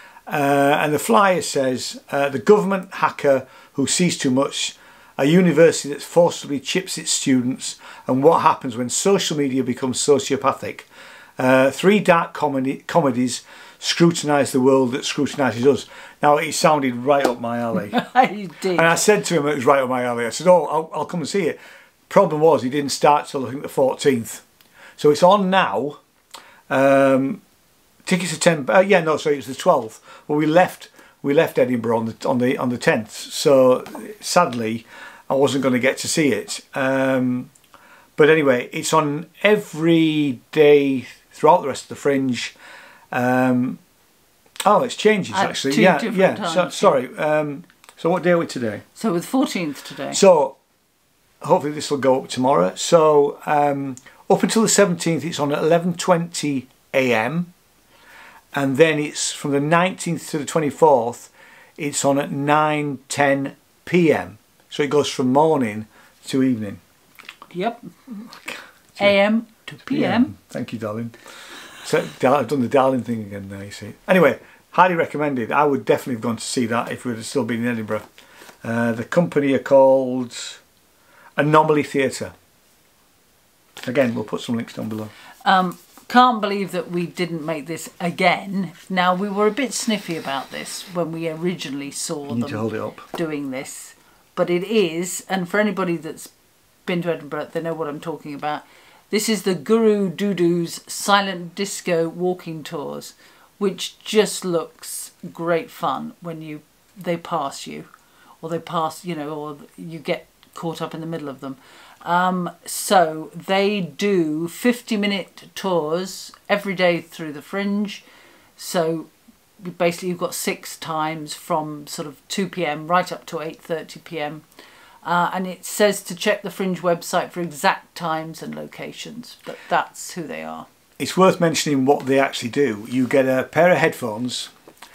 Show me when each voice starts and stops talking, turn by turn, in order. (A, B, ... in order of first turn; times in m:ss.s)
0:00.3-0:18.0 A
0:17.9-0:18.9 B
0:18.8-0:21.6 A
0:22.1-0:24.4 A
0:25.0-0:26.0 A
0:26.7-0:27.4 A
0:28.0-0:37.5 A
0:38.2-0:42.6 A
0:43.1-0:43.8 A
0:44.6-0:48.8 A
0:45.3-0:47.0 B
0:49.0-0:50.2 B
0:50.1-0:50.6 A
0:51.4-0:57.5 A
0:58.5-1:06.8 A
1:07.5-1:07.9 B
1:09.0-1:10.3 B
1:09.9-1:11.2 A
1:11.8-1:18.1 A
1:18.6-1:20.6 A
1:21.4-1:22.3 A
1:23.8-1:25.1 A
1:25.4-1:36.3 B
1:32.3-1:33.1 A
1:36.9-1:47.9 B
1:48.4-1:58.0 B
1:58.6-1:59.1 B
1:59.6-2:04.4 B
2:05.0-2:10.7 B
2:11.0-2:14.5 A